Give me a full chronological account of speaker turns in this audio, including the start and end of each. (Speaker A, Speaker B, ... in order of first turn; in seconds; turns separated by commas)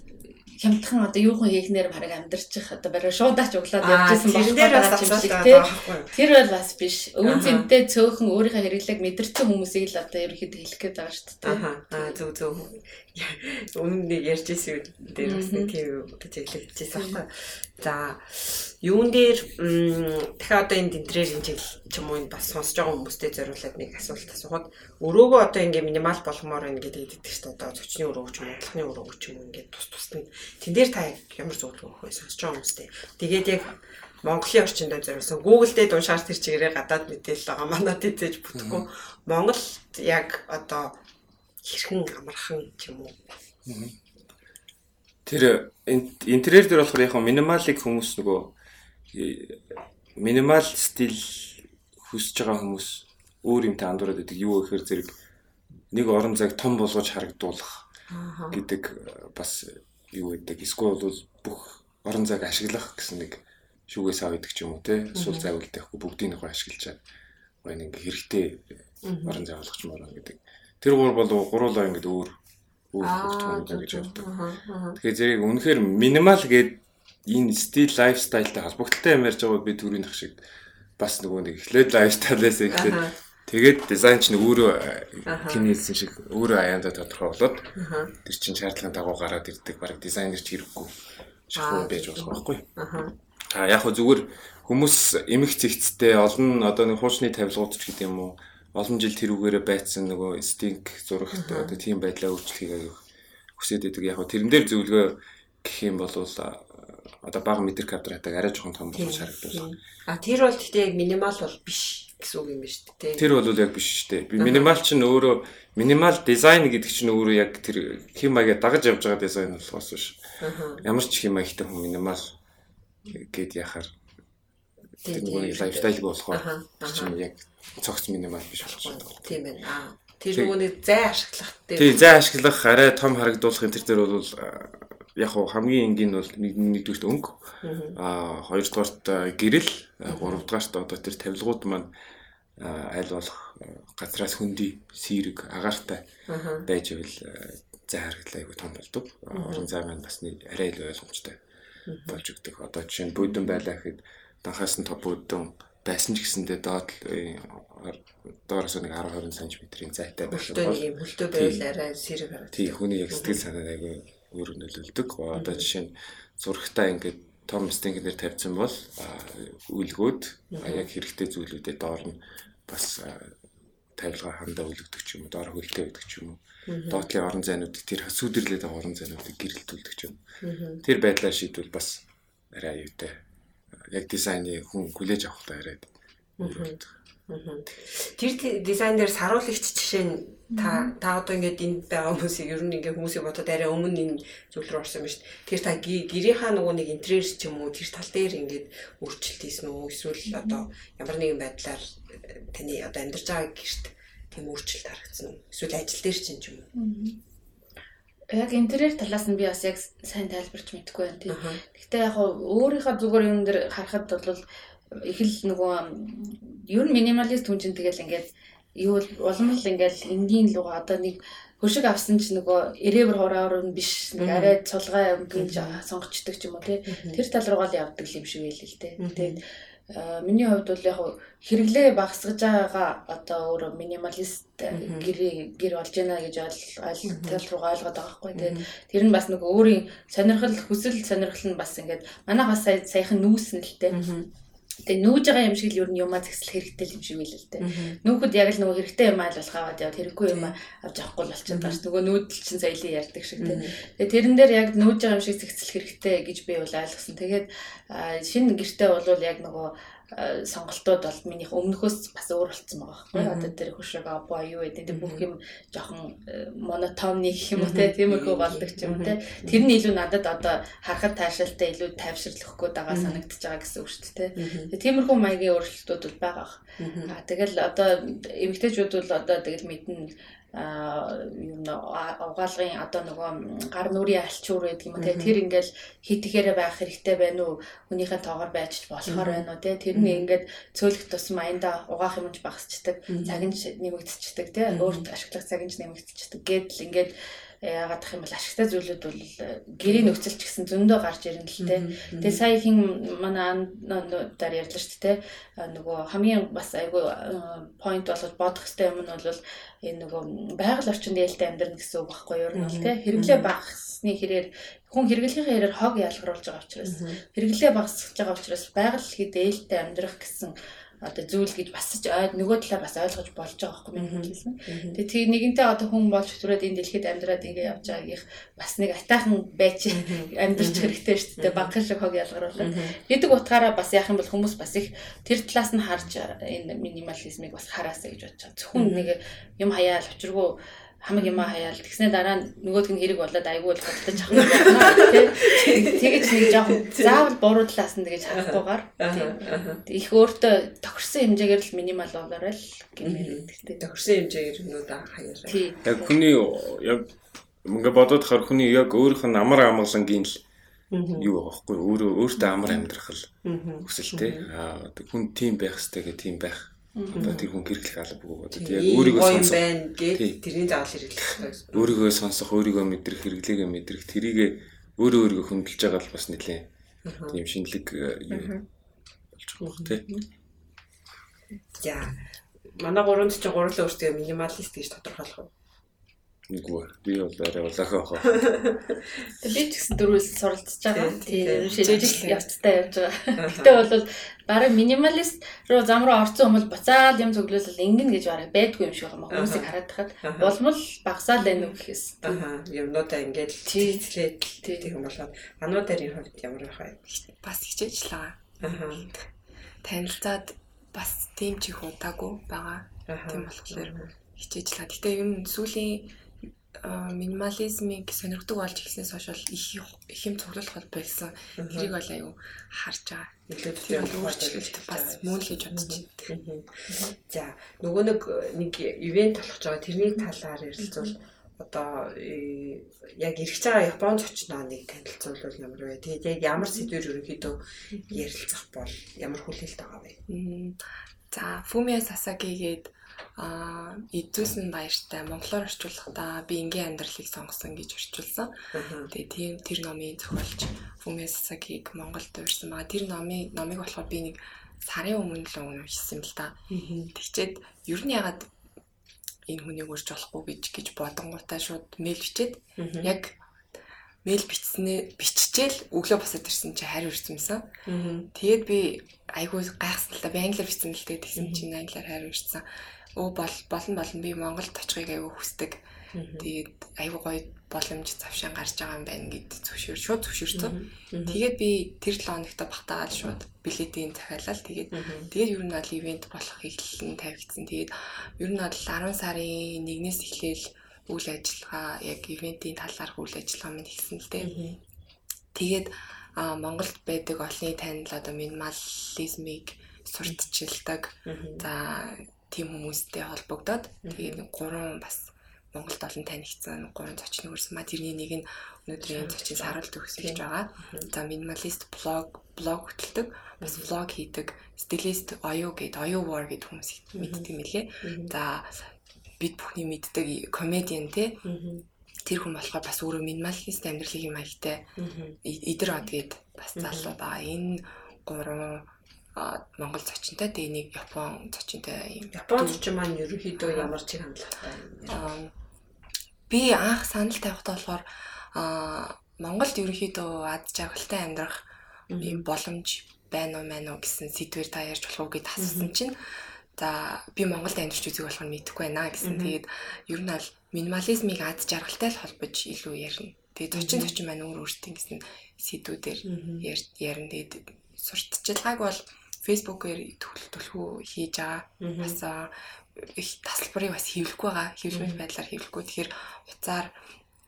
Speaker A: 0.5-12.2, Speaker B: 3.8-6.1, Speaker B: 7.2-7.7, Speaker B: 11.4-41.0, Speaker A: 15.2-15.7, Speaker A: 16.9-17.2, Speaker C: 38.5-38.9, Speaker B: 41.6-43.2, Speaker C: 43.6-43.9, Speaker C: 45.2-48.5, Speaker C: 49.1-55.1, Speaker C: 55.9-57.9, Speaker B: 58.1-58.6, Speaker C: 58.5-67.0, Speaker B: 65.1-65.5, Speaker C: 67.6-72.4, Speaker B: 69.0-69.4, Speaker C: 72.9-74.3, Speaker B: 73.0-75.0, Speaker C: 75.0-80.4, Speaker C: 81.0-90.9, Speaker B: 82.7-83.1, Speaker B: 85.3-85.6, Speaker B: 87.8-88.1, Speaker C: 91.5-92.7, Speaker B: 91.5-93.1, Speaker C: 93.5-103.0, Speaker B: 101.3-101.8, Speaker C: 103.6-109.7, Speaker B: 108.9-113.3, Speaker C: 113.2-120.2, Speaker B: 114.4-114.8, Speaker B: 120.4-120.8, Speaker C: 120.8-122.3, Speaker C: 123.0-123.9, Speaker B: 125.0-127.1, Speaker C: 125.0-129.4, Speaker B: 128.8-131.9, Speaker C: 131.8-137.4, Speaker B: 137.6-138.0, Speaker C: 137.9-141.9, Speaker B: 140.1-140.4, Speaker C: 142.6-146.1, Speaker B: 146.3-146.7, Speaker C: 146.6-151.4, Speaker B: 149.3-149.7, Speaker B: 151.9-152.2, Speaker C: 152.1-161.6, Speaker B: 153.2-153.5, Speaker B: 160.3-163.4, Speaker C: 162.5-173.4, Speaker B: 165.3-165.7, Speaker B: 170.5-170.9, Speaker C: 174.0-180.2, Speaker B: 176.7-177.0, Speaker B: 180.4-180.8, Speaker C: 180.8-183.2, Speaker C: 183.8-186.9, Speaker B: 186.4-206.7, Speaker A: 190.6-190.9, Speaker A: 200.3-200.6, Speaker A: 206.7-207.2, Speaker A: 208.3-214.4, Speaker B: 211.3-211.6, Speaker A: 214.9-229.4, Speaker B: 224.2-224.6, Speaker B: 225.3-225.8, Speaker B: 226.9-227.2, Speaker B: 229.0-229.4, Speaker A: 229.9-244.0, Speaker B: 234.7-235.1, Speaker B: 237.1-237.4, Speaker B: 238.3-238.6, Speaker B: 243.9-244.3, Speaker A: 244.9-353.8, Speaker B: 247.6-248.0, Speaker B: 251.5-251.8, Speaker B: 253.4-253.7, Speaker B: 263.1-263.5, Speaker B: 264.9-265.2, Speaker B: 267.5-269.6, Speaker B: 272.9-273.2, Speaker B: 274.4-274.7, Speaker B: 276.8-277.1, Speaker B: 285.0-285.4, Speaker B: 289.1-290.3, Speaker B: 293.1-293.5, Speaker B: 294.7-295.1, Speaker B: 299.8-300.2, Speaker B: 301.6-302.4, Speaker B: 312.5-313.5, Speaker B: 316.8-317.2, Speaker B: 324.0-325.0, Speaker B: 329.9-331.7, Speaker B: 332.6-332.9, Speaker B: 338.7-339.1, Speaker B: 341.2-341.5, Speaker B: 344.3-347.2, Speaker B: 348.3-349.8, Speaker B: 353.0-355.7, Speaker A: 355.5-356.1, Speaker C: 355.8-357.1, Speaker C: 357.6-360.4, Speaker B: 360.9-361.3, Speaker C: 361.1-363.3, Speaker B: 363.4-364.5, Speaker C: 363.8-370.4, Speaker A: 366.9-367.3, Speaker B: 367.1-367.5, Speaker B: 368.5-371.9, Speaker C: 371.7-376.7, Speaker B: 377.0-377.4, Speaker C: 377.3-378.6, Speaker A: 378.3-378.6, Speaker C: 379.3-380.1, Speaker B: 379.6-379.9, Speaker B: 381.7-382.2, Speaker B: 382.7-385.5, Speaker C: 386.5-388.6, Speaker B: 388.4-388.8, Speaker A: 389.4-402.4, Speaker B: 390.9-392.3, Speaker D: 391.5-392.4, Speaker B: 393.4-393.8, Speaker B: 399.3-400.6, Speaker B: 402.2-407.0, Speaker A: 403.7-404.0, Speaker A: 404.6-404.9, Speaker D: 407.1-408.6, Speaker B: 408.6-409.1, Speaker D: 409.8-416.1, Speaker B: 413.1-414.1, Speaker D: 416.8-426.3, Speaker B: 421.6-421.9, Speaker B: 423.5-440.2, Speaker D: 440.3-448.6, Speaker B: 448.7-449.1, Speaker D: 449.1-458.5, Speaker B: 456.7-457.1, Speaker D: 459.5-463.4, Speaker B: 462.8-463.1, Speaker D: 464.2-467.7, Speaker B: 467.9-468.3, Speaker D: 468.3-475.8, Speaker B: 471.4-471.6, Speaker B: 476.1-476.5, Speaker D: 476.4-494.5, Speaker B: 480.5-481.4, Speaker B: 484.9-485.3, Speaker B: 494.4-494.8, Speaker D: 495.5-518.9, Speaker B: 501.2-501.6, Speaker B: 504.0-504.4, Speaker B: 509.0-511.1, Speaker B: 517.1-517.5, Speaker B: 518.0-518.3, Speaker D: 519.4-521.5, Speaker B: 521.4-521.8, Speaker D: 522.2-524.9, Speaker B: 525.0-525.4, Speaker D: 525.4-532.8, Speaker B: 526.8-527.1, Speaker B: 532.3-535.3, Speaker D: 533.6-534.0, Speaker D: 535.1-535.5, Speaker D: 536.5-541.6, Speaker B: 542.1-542.4, Speaker D: 542.2-566.9, Speaker B: 545.6-545.9, Speaker B: 549.2-549.6, Speaker B: 553.7-554.1, Speaker B: 556.2-556.7, Speaker B: 561.8-562.2, Speaker B: 564.9-565.2